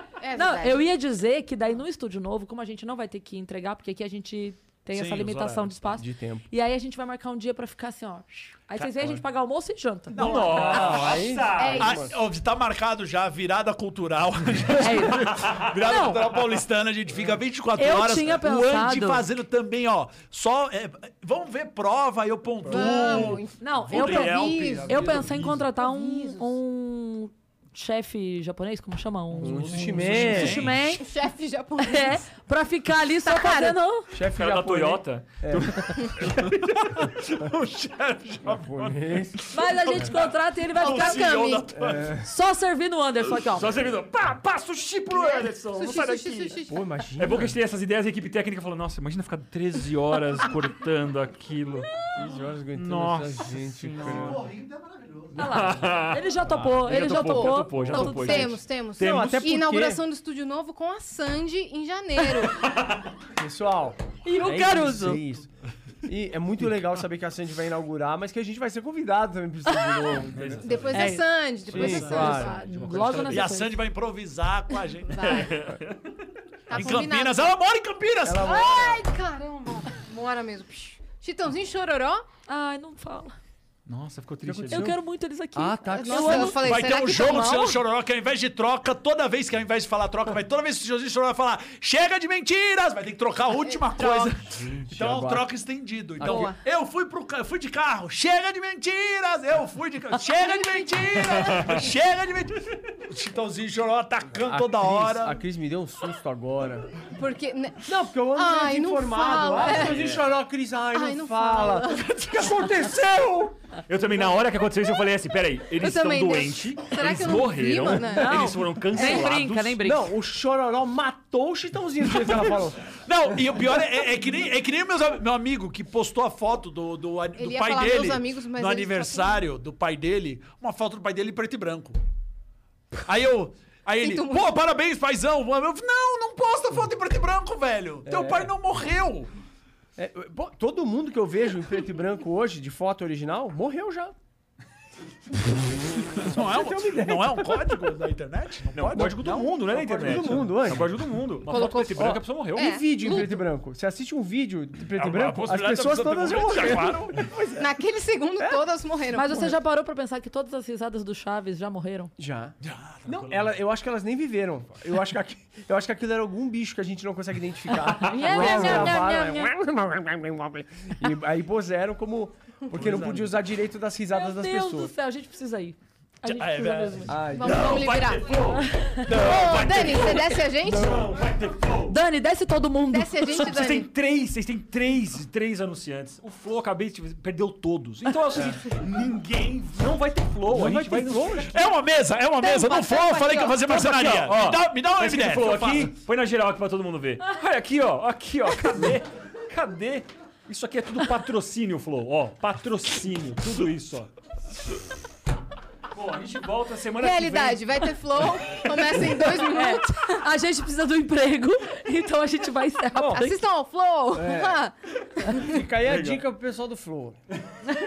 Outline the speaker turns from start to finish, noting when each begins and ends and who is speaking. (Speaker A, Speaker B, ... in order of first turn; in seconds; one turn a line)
Speaker A: 0.2-0.8
Speaker B: 0.3-10.2
Speaker C: 4.9-5.7
Speaker D: 5.9-6.4
Speaker E: 10.1-12.0
Speaker D: 10.1-12.2
Speaker A: 10.2-12.1
Speaker C: 10.4-11.2
Speaker C: 11.8-25.6
Speaker B: 14.8-16.2
Speaker E: 15.2-16.2
Speaker B: 17.8-19.2
Speaker E: 22.6-23.3
Speaker A: 22.6-26.6
Speaker B: 23.6-31.1
Speaker E: 25.3-25.6
Speaker E: 29.3-30.5
Speaker D: 29.4-30.6
Speaker C: 29.7-31.0
Speaker A: 30.9-32.2
Speaker B: 31.8-34.1
Speaker A: 33.2-33.8
Speaker D: 34.1-36.5
Speaker E: 34.3-36.9
Speaker C: 36.7-42.1
Speaker D: 38.4-39.4
Speaker B: 39.5-41.6
Speaker A: 40.8-41.6
Speaker D: 41.7-42.3
Speaker B: 42.2-43.9
Speaker E: 43.4-46.6
Speaker A: 45.1-46.8
Speaker D: 46.6-47.6
Speaker E: 47.2-52.1
Speaker D: 52.1-54.5
Speaker E: 52.7-54.5
Speaker C: 54.2-55.2
Speaker B: 55.4-58.5
Speaker E: 55.4-59.5
Speaker D: 57.7-60.0
Speaker A: 57.9-62.8
Speaker E: 62.6-62.9
Speaker D: 63.4-65.5
Speaker B: 64.2-65.2
Speaker D: 66.0-71.0
Speaker E: 70.3-73.6
Speaker A: 70.6-72.7
Speaker B: 70.9-71.2
Speaker D: 71.7-72.5
Speaker B: 72.0-73.8
Speaker C: 73.3-75.5
Speaker A: 75.1-75.6
Speaker E: 75.2-76.3
Speaker A: 76.7-77.5
Speaker C: 76.7-78.9
Speaker D: 78.2-79.0
Speaker A: 78.3-82.2
Speaker B: 82.5-83.3
Speaker E: 83.8-85.0
Speaker D: 84.4-85.0
Speaker B: 84.7-87.0
Speaker D: 85.5-86.8
Speaker A: 85.9-87.8
Speaker C: 86.6-105.4
Speaker D: 94.0-95.5
Speaker D: 96.2-96.5
Speaker A: 96.2-96.6
Speaker A: 100.2-101.9
Speaker D: 104.3-107.0
Speaker A: 107.1-110.2
Speaker D: 107.8-113.5
Speaker E: 109.8-110.1
Speaker A: 110.9-112.1
Speaker E: 113.9-119.8
Speaker A: 115.7-119.3
Speaker B: 118.1-120.1
Speaker D: 119.8-124.0
Speaker C: 122.5-132.0
Speaker A: 127.4-129.4
Speaker C: 133.0-139.3
Speaker A: 134.0-134.5
Speaker D: 138.1-138.5
Speaker D: 139.9-144.2
Speaker D: 145.5-147.9
Speaker C: 146.2-150.6
Speaker E: 148.7-152.8
Speaker D: 148.9-151.2
Speaker A: 151.4-153.4
Speaker D: 151.9-157.8
Speaker C: 154.9-157.2
Speaker A: 157.6-159.5
Speaker D: 158.4-158.7
Speaker B: 159.1-162.1
Speaker D: 162.2-174.9
Speaker C: 162.6-163.5
Speaker B: 168.0-169.5
Speaker E: 168.3-168.9
Speaker C: 172.7-173.4
Speaker B: 174.1-177.3
Speaker C: 176.2-177.3
Speaker D: 177.1-177.9
Speaker A: 177.3-178.5
Speaker E: 177.4-182.0
Speaker B: 178.5-179.0
Speaker C: 179.0-180.2
Speaker A: 179.1-181.2
Speaker D: 180.7-181.1
Speaker B: 181.9-183.7
Speaker A: 182.9-183.9
Speaker E: 183.2-191.5
Speaker D: 190.5-191.5
Speaker C: 191.5-195.9
Speaker A: 192.4-193.7
Speaker E: 193.7-204.1
Speaker E: 205.9-207.9
Speaker A: 207.0-210.2
Speaker B: 209.2-213.4
Speaker D: 213.0-213.2
Speaker A: 213.1-215.6
Speaker D: 214.1-214.6
Speaker D: 215.2-217.2
Speaker E: 215.8-216.2